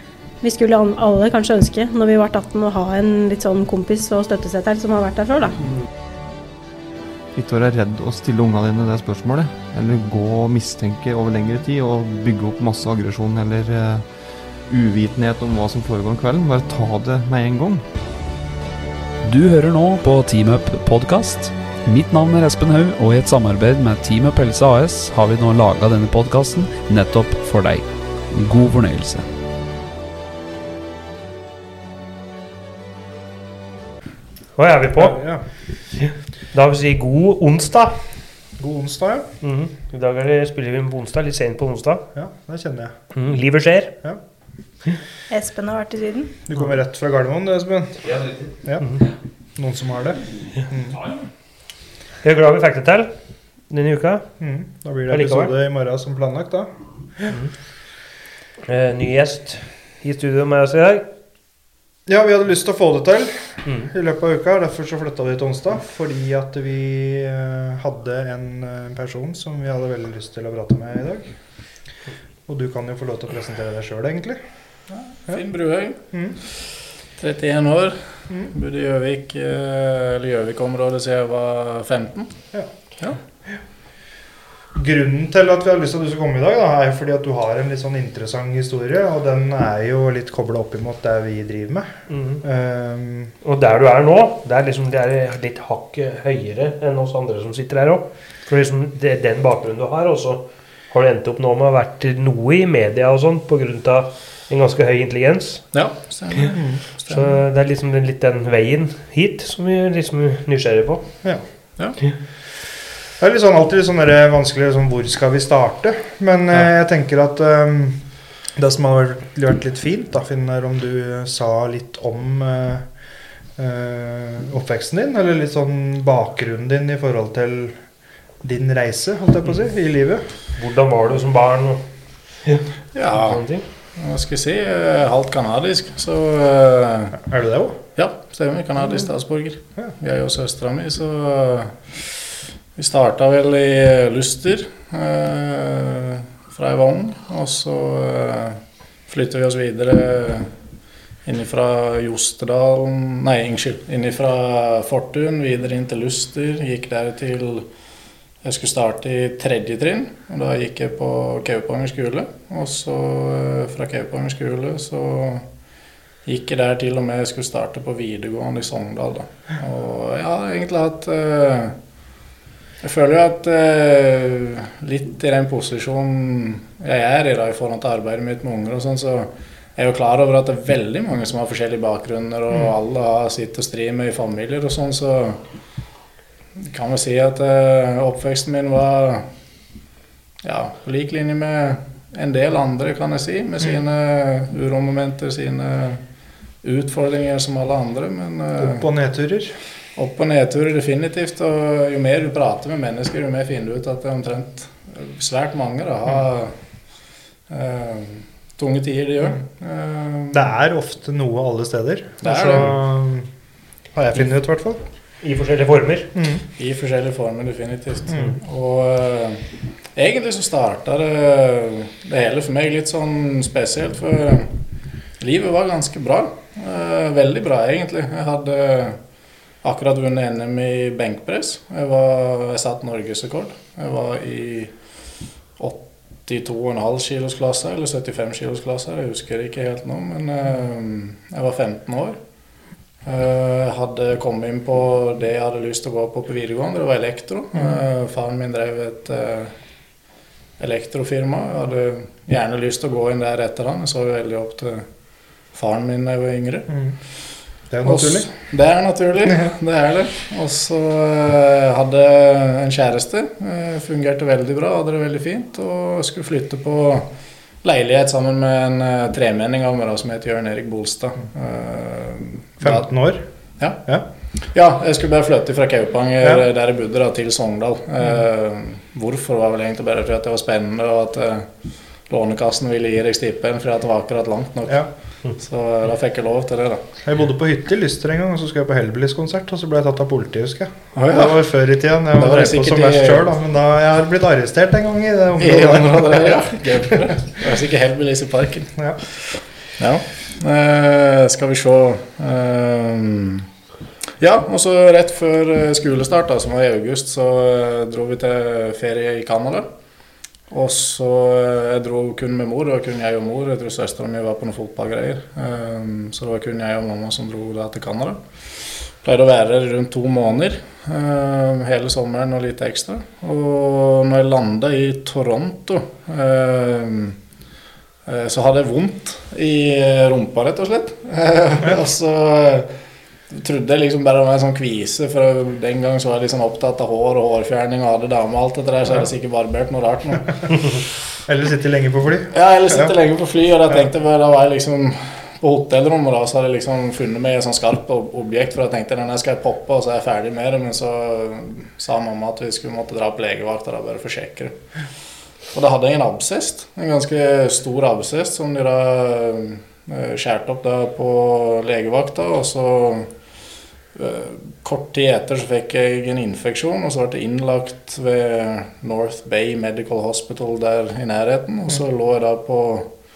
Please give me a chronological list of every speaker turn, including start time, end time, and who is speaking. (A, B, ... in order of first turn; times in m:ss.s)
0:00.4-0:05.7 A
0:07.3-0:17.8 B
0:19.2-0:29.3 C
0:34.6-0:35.2 D
0:35.0-0:35.4 E
0:35.9-0:38.2 D
0:38.6-0:39.3 E
0:39.4-0:42.0 D
0:42.1-0:43.1 E
0:43.1-0:44.0 D
0:45.3-0:46.3 A
0:46.5-0:48.0 E
0:48.0-0:48.5 C
0:48.6-0:48.9 E
0:49.6-0:51.0 E
0:52.2-0:53.2 D
0:53.7-0:54.3 D
0:54.4-0:57.3 E
0:55.1-0:55.5 D
0:57.3-0:57.5 D
0:58.6-1:01.1 D
1:02.1-1:11.4 E
1:03.6-1:03.9 D
1:12.5-1:14.4 E
1:14.9-1:16.0 F
1:16.1-1:16.4 E
1:17.2-1:22.3 F
1:24.8-1:31.9 E
1:32.1-1:32.4 D
1:32.4-1:33.3 E
1:33.4-1:45.7 D
1:45.7-1:47.3 F
1:46.5-1:46.8 E
1:47.1-1:51.2 D
1:53.2-2:02.9 E
2:03.6-2:07.8 E
2:08.4-2:10.2 E
2:10.6-2:11.8 D
2:12.4-2:13.6 D
2:12.9-2:13.4 F
2:14.0-2:17.2 F
2:17.2-2:17.8 E
2:18.0-2:22.2 F
2:22.8-2:30.5 F
2:31.2-2:37.7 F
2:38.4-2:45.4 F
2:46.2-2:51.8 F
2:52.8-3:05.4 F
3:06.6-3:09.3 F
3:10.4-3:16.0 F
3:16.6-3:18.9 F
3:18.6-3:19.6 E
3:20.0-3:26.5 F
3:27.5-3:30.5 F
3:30.3-3:33.3 E
3:32.2-3:32.8 F
3:33.9-3:34.8 E
3:35.2-3:36.1 D
3:36.2-3:36.4 E
3:36.6-3:39.4 F
3:38.1-3:38.4 E
3:40.0-3:44.5 F
3:45.2-3:49.0 F
3:49.6-3:54.7 F
3:55.6-4:02.2 F
4:03.0-4:09.6 F
4:10.6-4:14.9 F
4:15.5-4:16.7 F
4:17.7-4:18.3 E
4:17.8-4:27.1 F
4:27.6-4:32.9 F
4:32.6-4:33.2 E
4:34.4-4:41.5 F
4:42.1-4:46.8 F
4:47.0-4:56.3 E
4:50.9-4:51.4 F
4:52.2-4:53.3 F
4:55.4-5:03.5 F
5:04.2-5:09.7 F
5:10.5-5:27.2 F
5:28.1-5:32.7 F
5:33.3-5:40.5 F
5:41.3-5:42.9 E
5:42.3-5:54.6 F
5:55.5-6:03.1 F
6:04.0-6:12.9 F